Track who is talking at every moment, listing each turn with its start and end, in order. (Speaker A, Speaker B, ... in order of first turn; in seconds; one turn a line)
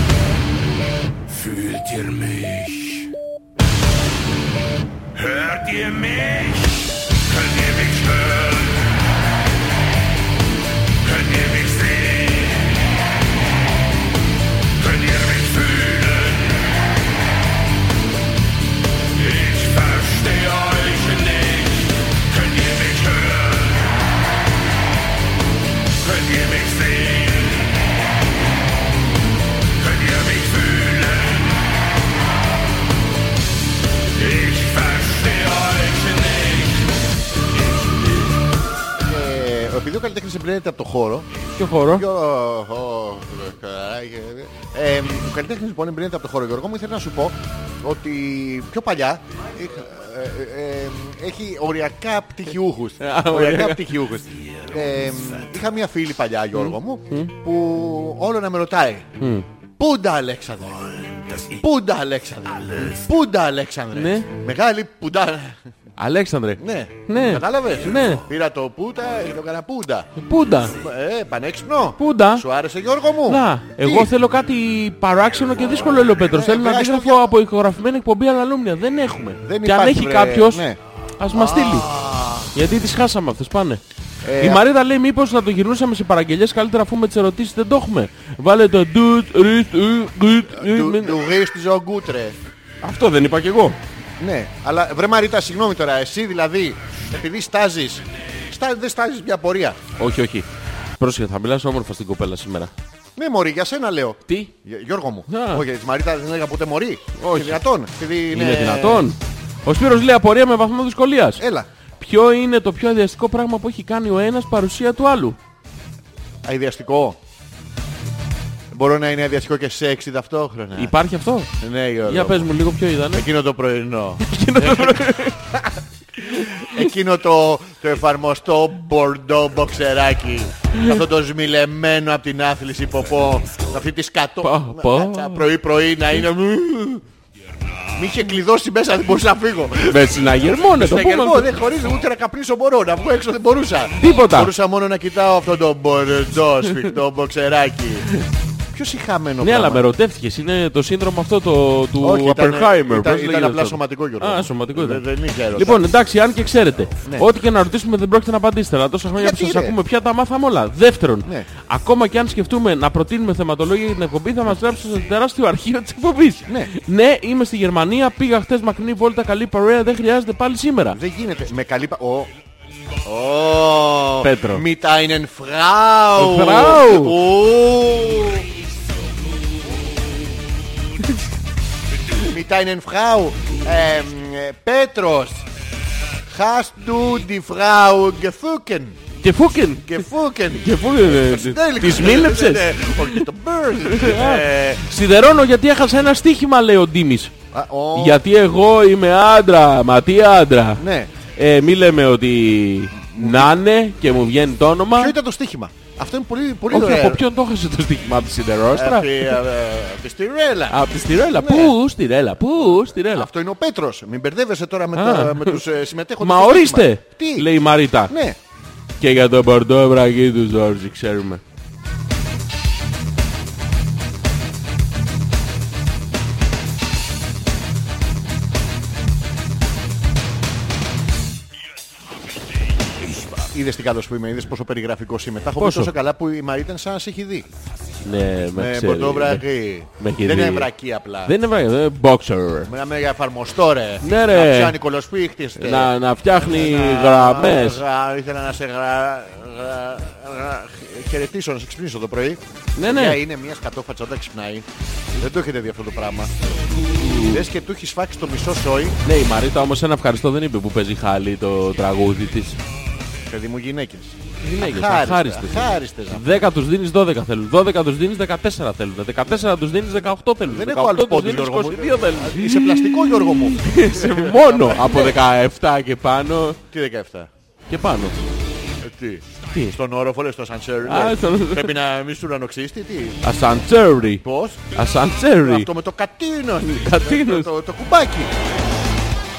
Speaker A: 1.3-3.1
Speaker A: 5.1-9.0
Speaker A: 11.0-12.9
Speaker A: 14.8-16.8
Speaker A: 19.1-23.9
Speaker A: 26.0-27.8
Speaker A: 29.8-31.6
Speaker A: 34.1-37.0
Speaker A: 37.6-38.3
Speaker B: 39.0-41.3
Speaker C: 41.6-42.0
Speaker B: 41.9-59.1
Speaker C: 53.0-54.0
Speaker C: 56.5-57.3
Speaker C: 59.2-59.5
Speaker B: 59.8-60.9
Speaker A: 60.9-61.6
Speaker B: 61.5-65.6
Speaker A: 62.6-62.9
Speaker C: 63.9-64.3
Speaker C: 66.0-68.2
Speaker B: 66.6-70.1
Speaker C: 70.2-70.8
Speaker B: 70.7-74.1
Speaker C: 72.0-72.5
Speaker C: 73.2-80.7
Speaker B: 75.8-77.3
Speaker B: 79.4-80.8
Speaker C: 81.2-81.9
Speaker B: 81.3-82.5
Speaker C: 82.5-83.8
Speaker B: 84.2-84.6
Speaker C: 84.4-91.2
Speaker B: 90.5-92.4
Speaker C: 92.8-93.8
Speaker B: 94.2-99.8
Speaker C: 100.0-100.5
Speaker C: 101.0-102.7
Speaker B: 103.2-109.1
Speaker C: 105.3-105.7
Speaker C: 107.2-107.6
Speaker C: 108.3-111.4
Speaker B: 111.4-111.7
Speaker C: 112.0-115.4
Speaker B: 116.4-117.2
Speaker B: 118.7-120.9
Speaker C: 120.7-121.5
Speaker B: 121.6-122.5
Speaker C: 122.0-123.3
Speaker B: 123.1-125.7
Speaker C: 124.2-125.5
Speaker B: 126.2-137.0
Speaker C: 130.7-131.0
Speaker C: 134.4-135.5
Speaker B: 137.9-148.1
Speaker C: 139.9-141.5
Speaker C: 144.0-144.5
Speaker B: 148.7-149.8
Speaker C: 149.4-171.0
Speaker B: 152.0-155.9
Speaker B: 159.2-159.8
Speaker B: 166.5-166.7
Speaker B: 170.9-172.3
Speaker B: 173.1-178.5
Speaker C: 174.2-174.7
Speaker C: 176.2-177.2
Speaker B: 182.2-185.4
Speaker B: 186.3-189.0
Speaker C: 189.2-193.3
Speaker B: 189.8-194.8
Speaker C: 193.8-197.3
Speaker B: 197.5-198.2
Speaker C: 197.9-200.8
Speaker B: 200.8-201.1
Speaker C: 201.3-205.2
Speaker B: 202.9-203.6
Speaker B: 205.0-207.2
Speaker C: 206.7-209.4
Speaker B: 208.7-211.7
Speaker C: 210.7-213.3
Speaker B: 213.1-217.5
Speaker C: 214.9-215.6
Speaker C: 216.2-218.1
Speaker B: 218.1-218.4
Speaker C: 219.0-221.4
Speaker A: 233.1-233.4
Speaker B: 233.5-237.5
Speaker C: 235.6-235.9
Speaker C: 238.0-239.4
Speaker B: 238.6-241.3
Speaker C: 240.0-240.7
Speaker C: 241.2-242.7
Speaker B: 242.7-256.5
Speaker C: 244.0-244.8
Speaker C: 245.6-247.8
Speaker C: 252.8-253.2
Speaker C: 256.9-257.5
Speaker B: 257.2-259.0
Speaker C: 259.1-262.6
Speaker B: 263.3-266.5
Speaker C: 264.4-276.6
Speaker B: 270.5-275.1
Speaker B: 276.7-277.3
Speaker C: 277.7-278.2
Speaker B: 278.8-283.2
Speaker C: 280.8-281.7
Speaker C: 283.2-285.7
Speaker B: 284.2-284.6
Speaker B: 285.4-288.3
Speaker C: 286.6-287.5